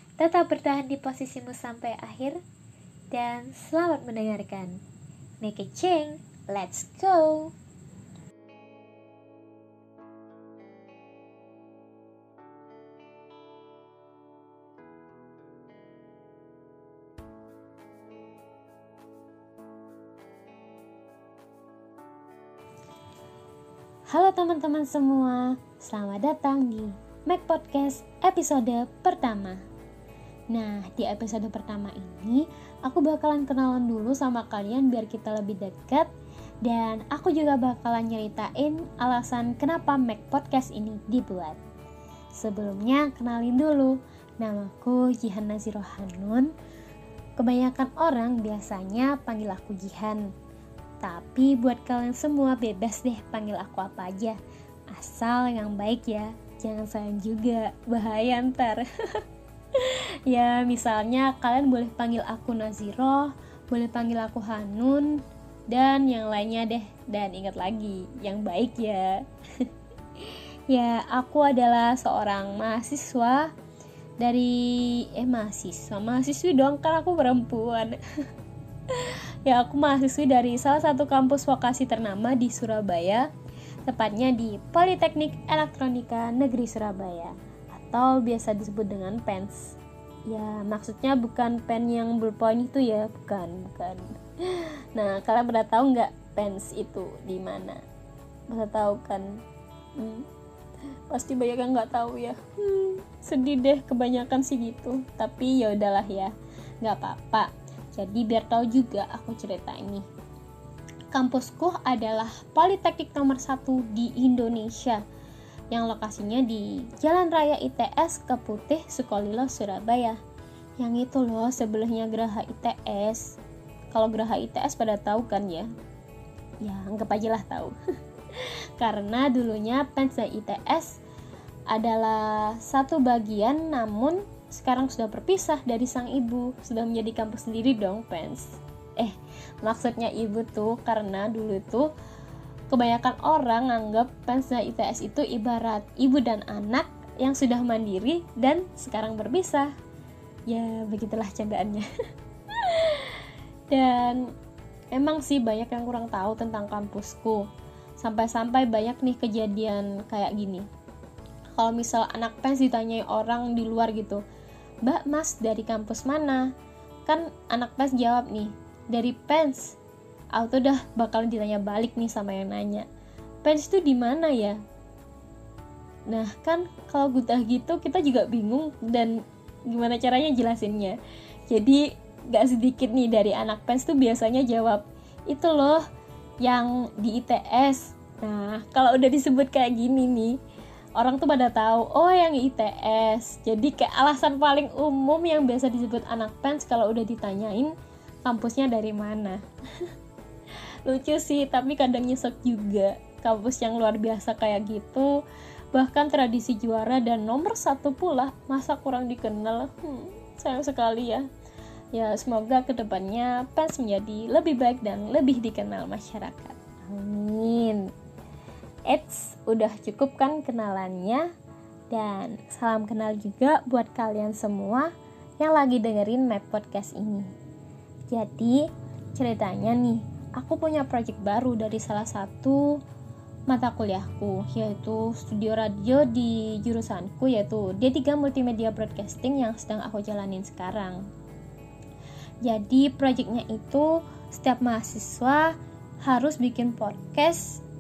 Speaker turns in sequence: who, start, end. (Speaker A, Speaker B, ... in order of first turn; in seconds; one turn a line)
Speaker A: 0.2-2.4
Speaker A: 3.1-4.8
Speaker A: 5.4-7.5
Speaker A: 24.1-29.6
Speaker A: 30.5-36.1
Speaker A: 36.6-41.6
Speaker A: 42.4-46.5
Speaker A: 47.4-50.3
Speaker A: 51.0-54.4
Speaker A: 54.9-73.5
Speaker A: 74.2-78.0
Speaker A: 78.9-83.3
Speaker A: 83.8-97.8
Speaker A: 98.5-99.4
Speaker A: 100.0-100.3
Speaker A: 101.1-110.1
Speaker A: 111.1-115.0
Speaker A: 115.7-120.2
Speaker A: 120.8-123.4
Speaker A: 123.9-125.7
Speaker A: 126.6-127.8
Speaker A: 128.3-131.0
Speaker A: 131.7-141.9
Speaker A: 142.7-149.7
Speaker A: 150.5-151.9
Speaker A: 152.5-154.3
Speaker A: 154.9-157.5
Speaker A: 158.0-160.7
Speaker A: 161.6-164.2
Speaker A: 164.8-166.5
Speaker A: 167.1-169.8
Speaker A: 170.3-172.9
Speaker A: 173.4-174.6
Speaker A: 176.1-179.2
Speaker A: 179.7-181.0
Speaker A: 181.5-185.8
Speaker A: 186.4-190.4
Speaker A: 191.0-197.7
Speaker A: 198.2-199.9
Speaker A: 200.8-205.2
Speaker A: 205.7-211.3
Speaker A: 211.9-217.9
Speaker A: 218.9-221.3
Speaker A: 221.9-227.3
Speaker A: 228.1-232.8
Speaker A: 233.5-241.0
Speaker A: 242.4-247.6